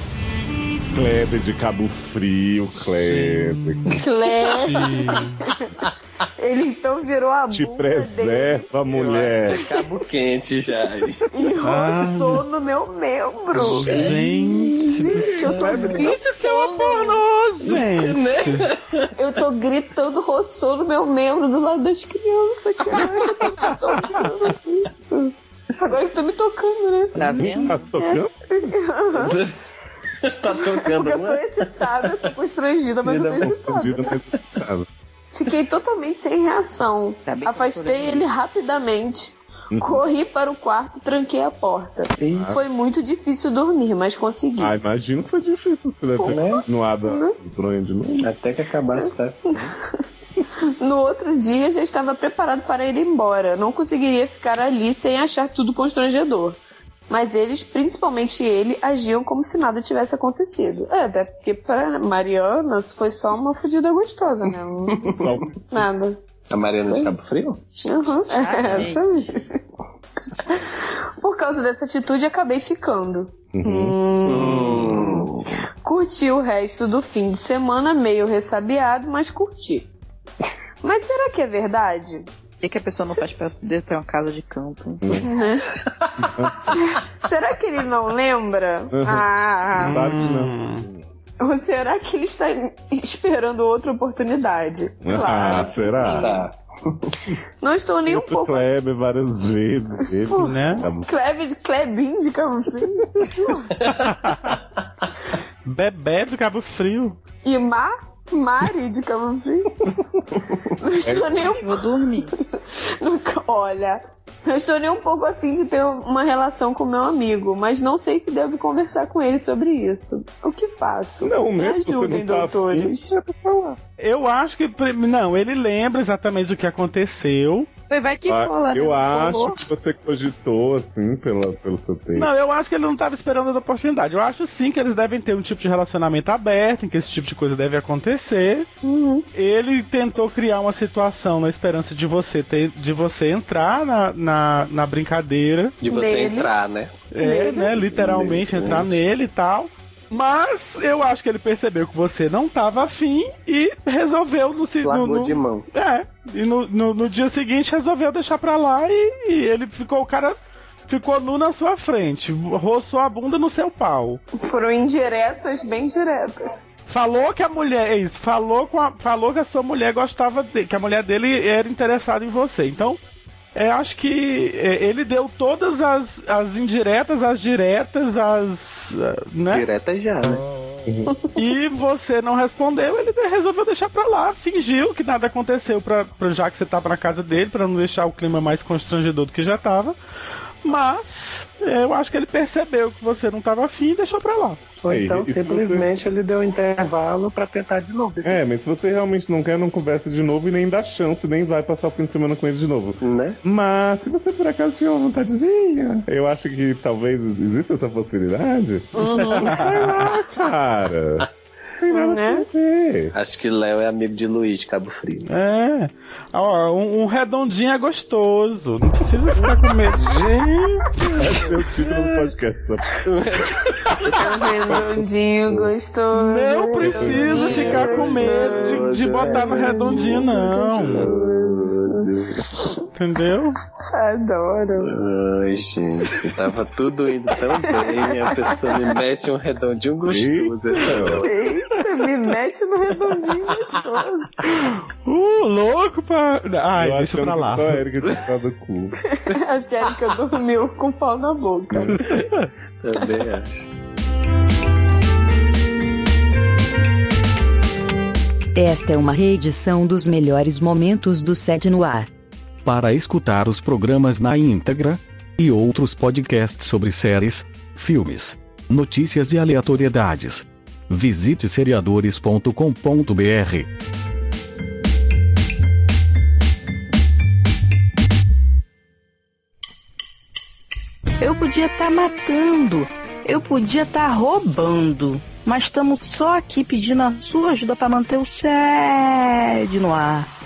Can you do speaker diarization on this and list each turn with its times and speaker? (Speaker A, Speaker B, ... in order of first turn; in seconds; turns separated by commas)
Speaker A: 0.9-3.8, Speaker B: 2.9-4.0, Speaker C: 4.0-5.2, Speaker B: 4.5-5.4, Speaker C: 6.4-8.7, Speaker A: 7.5-9.6, Speaker D: 8.9-11.3, Speaker C: 11.3-14.1, Speaker B: 11.6-12.4, Speaker B: 13.6-18.6, Speaker D: 13.7-16.1, Speaker C: 14.7-17.2, Speaker D: 17.6-19.1, Speaker C: 19.2-29.4, Speaker E: 27.1-27.9, Speaker A: 27.4-28.3, Speaker D: 29.2-29.5, Speaker D: 30.2-32.3, Speaker C: 30.6-34.0, Speaker D: 33.0-33.5, Speaker A: 33.4-34.9, Speaker C: 35.3-44.8, Speaker E: 37.2-38.3, Speaker A: 39.7-40.0, Speaker D: 42.2-42.5, Speaker A: 42.4-42.6, Speaker A: 44.6-48.3, Speaker C: 46.2-47.3, Speaker D: 46.2-46.6, Speaker D: 48.2-49.6, Speaker C: 50.8-56.6, Speaker C: 57.1-65.2, Speaker A: 65.1-65.9, Speaker C: 65.7-66.1, Speaker D: 66.5-67.6, Speaker C: 67.8-69.5, Speaker E: 68.3-69.1, Speaker C: 70.5-75.0, Speaker A: 73.5-73.9, Speaker D: 74.2-75.3, Speaker A: 74.6-75.0, Speaker C: 75.8-79.9, Speaker C: 80.8-82.2, Speaker E: 82.6-85.1, Speaker C: 83.0-83.3, Speaker A: 85.0-85.3, Speaker C: 85.2-85.7, Speaker D: 86.0-86.5, Speaker A: 86.2-86.7, Speaker C: 86.6-90.0, Speaker A: 88.9-91.0, Speaker B: 89.8-90.8, Speaker C: 91.4-96.4, Speaker A: 95.0-96.3, Speaker D: 95.2-97.1, Speaker C: 97.6-98.7, Speaker A: 98.1-101.1, Speaker C: 100.2-103.8, Speaker B: 100.4-100.8, Speaker B: 104.0-104.4, Speaker B: 105.6-107.2, Speaker C: 107.4-109.8, Speaker C: 110.8-112.0, Speaker A: 111.0-111.5, Speaker E: 111.4-112.3, Speaker C: 112.5-123.2, Speaker A: 121.2-123.8, Speaker B: 124.0-127.7, Speaker E: 127.9-129.6, Speaker A: 128.3-132.3, Speaker B: 132.1-138.7, Speaker C: 138.8-139.2, Speaker B: 139.3-145.8, Speaker D: 145.8-146.9, Speaker C: 145.9-146.5, Speaker B: 147.1-164.2, Speaker C: 147.2-147.8, Speaker D: 147.8-149.0, Speaker D: 154.8-155.7, Speaker C: 164.4-166.5, Speaker B: 166.9-173.0, Speaker B: 173.5-179.7, Speaker D: 179.5-180.4, Speaker A: 180.8-181.1, Speaker B: 181.4-190.0, Speaker B: 190.6-194.6, Speaker D: 194.8-198.5, Speaker A: 194.9-195.8, Speaker A: 198.2-211.3, Speaker D: 203.0-203.4, Speaker C: 209.0-209.6, Speaker B: 209.2-209.5, Speaker A: 211.8-213.1, Speaker C: 211.9-212.5, Speaker D: 213.1-215.3, Speaker B: 215.2-220.2, Speaker D: 219.4-222.3, Speaker A: 221.2-223.0, Speaker D: 223.0-224.3, Speaker C: 224.2-228.9, Speaker A: 224.7-225.7, Speaker B: 226.1-231.1, Speaker A: 226.8-227.5, Speaker D: 227.3-232.4, Speaker C: 229.5-231.8, Speaker C: 232.5-232.8, Speaker B: 232.9-233.6, Speaker C: 233.9-234.9, Speaker D: 234.8-241.3, Speaker C: 237.8-238.9, Speaker A: 240.0-241.2, Speaker C: 241.2-244.4, Speaker B: 244.5-247.8, Speaker A: 246.8-249.0, Speaker C: 249.1-252.0, Speaker A: 251.7-252.0, Speaker D: 251.9-252.2, Speaker D: 252.8-253.6, Speaker F: 258.5-262.1, Speaker G: 262.6-273.6, Speaker E: 281.2-290.3